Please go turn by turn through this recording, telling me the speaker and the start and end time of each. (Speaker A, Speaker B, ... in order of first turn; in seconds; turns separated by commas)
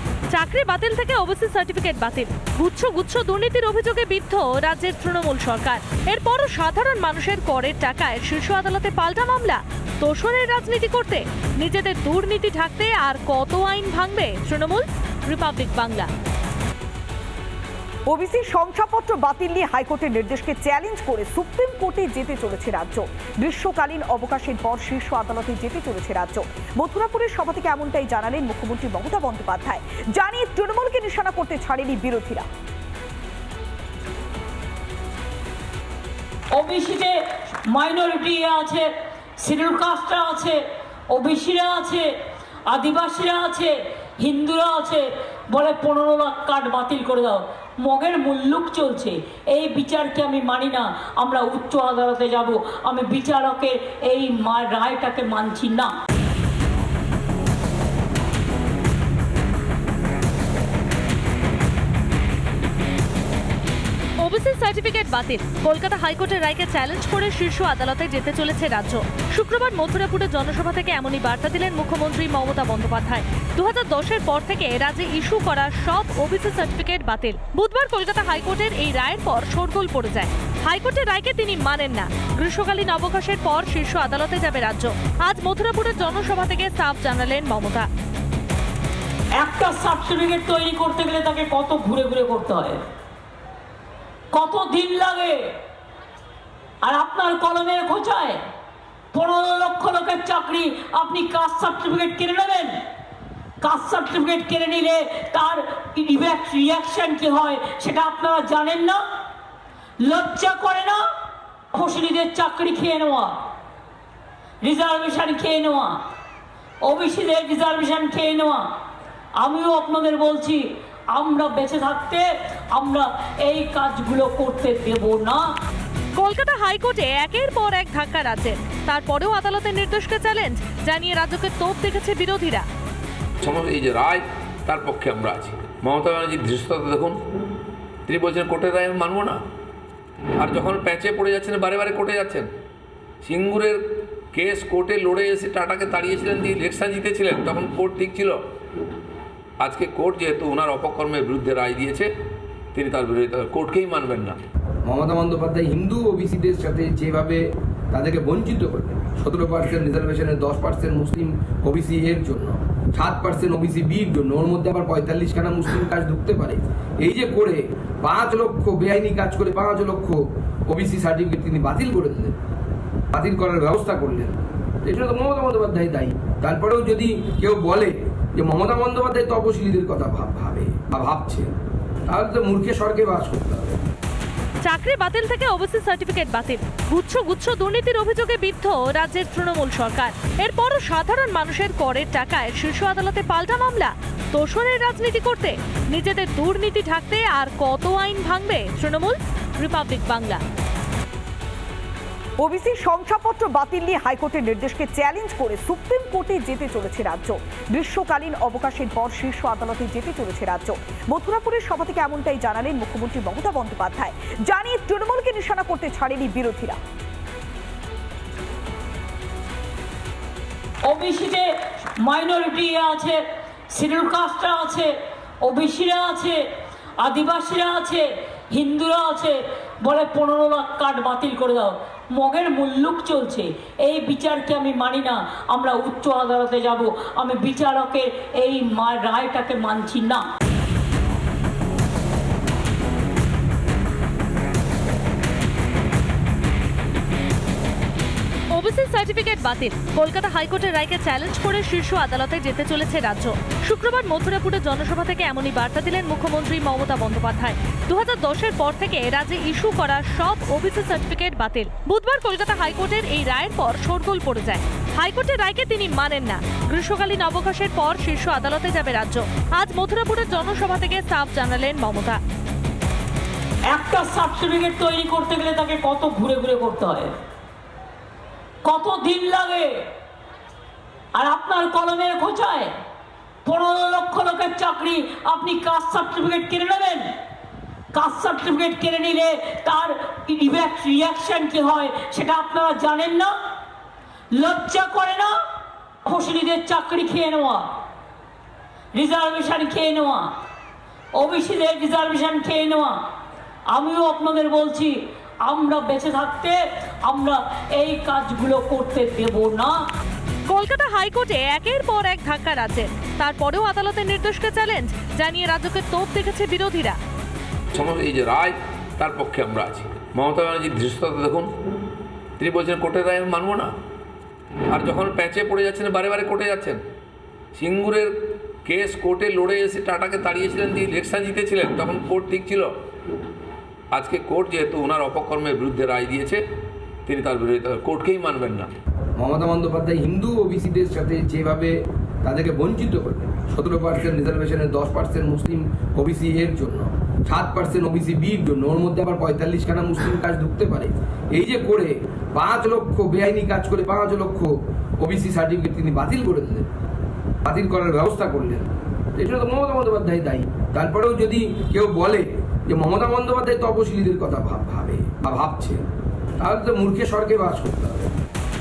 Speaker A: 0.3-16.1, Speaker B: 18.1-32.5, Speaker C: 36.5-37.1, Speaker C: 37.7-38.9, Speaker C: 39.4-40.6, Speaker C: 41.1-42.1, Speaker C: 42.7-55.9, Speaker A: 64.2-87.9, Speaker C: 89.4-92.8, Speaker C: 94.3-95.4, Speaker C: 96.8-98.4, Speaker C: 99.1-102.8, Speaker C: 103.6-109.0, Speaker C: 110.0-111.0, Speaker C: 111.7-113.4, Speaker C: 114.6-116.0, Speaker C: 116.8-118.7, Speaker C: 119.4-120.6, Speaker C: 121.1-125.5, Speaker A: 126.2-132.7, Speaker D: 133.4-137.2, Speaker D: 138.1-139.4, Speaker D: 140.4-142.5, Speaker D: 143.2-143.8, Speaker D: 144.3-148.4, Speaker D: 149.6-152.1, Speaker D: 152.7-154.4, Speaker E: 154.8-172.4, Speaker E: 173.1-181.5, Speaker E: 182.1-183.8, Speaker A: 184.6-200.4, Speaker B: 202.4-216.8, Speaker C: 220.9-221.5, Speaker C: 222.0-223.2, Speaker C: 223.7-224.9, Speaker C: 225.4-226.4, Speaker C: 227.0-240.2, Speaker A: 248.5-272.2, Speaker C: 273.7-277.1, Speaker C: 278.6-279.7, Speaker C: 281.2-282.7, Speaker C: 283.4-287.1, Speaker C: 287.9-293.3, Speaker C: 294.3-295.3, Speaker C: 296.1-297.7, Speaker C: 299.0-300.3, Speaker C: 301.2-303.0, Speaker C: 303.7-309.8, Speaker A: 310.5-317.0, Speaker D: 317.7-321.5, Speaker D: 322.4-323.7, Speaker D: 324.7-326.8, Speaker D: 327.5-328.1, Speaker D: 328.6-332.7, Speaker D: 333.9-336.4, Speaker D: 337.1-338.7, Speaker E: 339.2-356.7, Speaker E: 357.4-365.8, Speaker E: 366.4-368.1